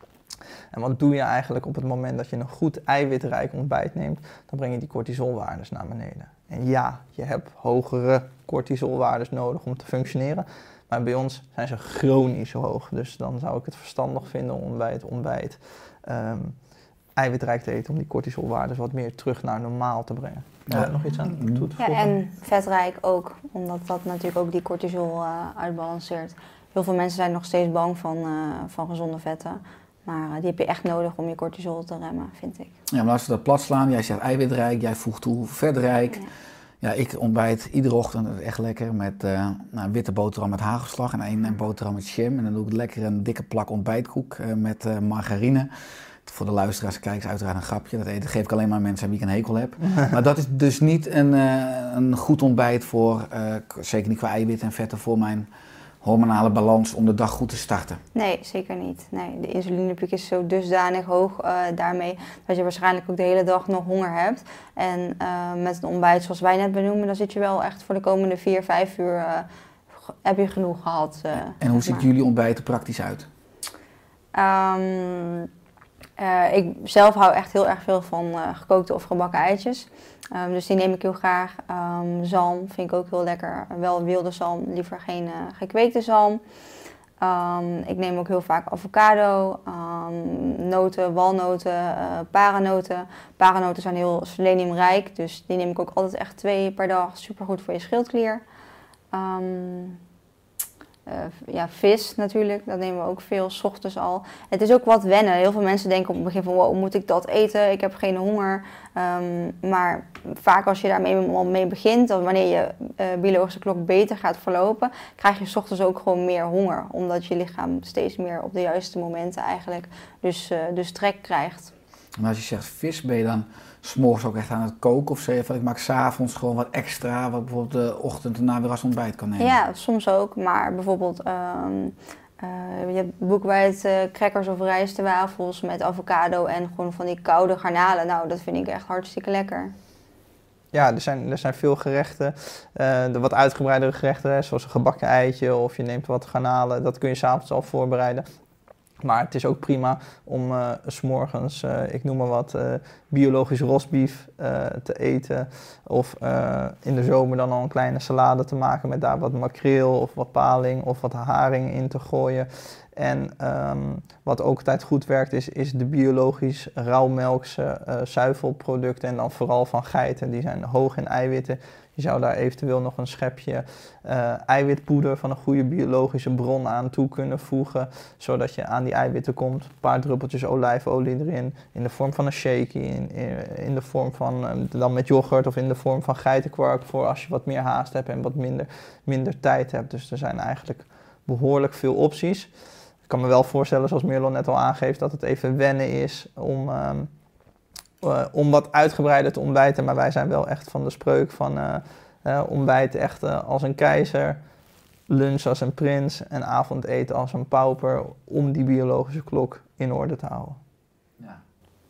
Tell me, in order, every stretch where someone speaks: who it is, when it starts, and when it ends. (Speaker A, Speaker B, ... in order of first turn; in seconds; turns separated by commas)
Speaker A: 0.7-16.6, Speaker A: 17.2-22.1, Speaker B: 20.7-21.7, Speaker C: 21.8-32.7, Speaker B: 32.9-36.3, Speaker B: 36.8-45.7, Speaker B: 46.2-55.5, Speaker B: 56.0-58.0, Speaker C: 58.1-69.5, Speaker C: 70.2-72.0, Speaker B: 71.4-73.3, Speaker C: 74.3-75.5, Speaker C: 76.2-86.4, Speaker C: 87.2-98.4, Speaker C: 99.1-100.0, Speaker C: 101.1-121.7, Speaker B: 122.2-129.6, Speaker C: 129.4-139.7, Speaker A: 140.7-148.2, Speaker A: 149.0-192.5, Speaker A: 193.1-197.1, Speaker A: 198.0-204.4, Speaker A: 205.1-210.6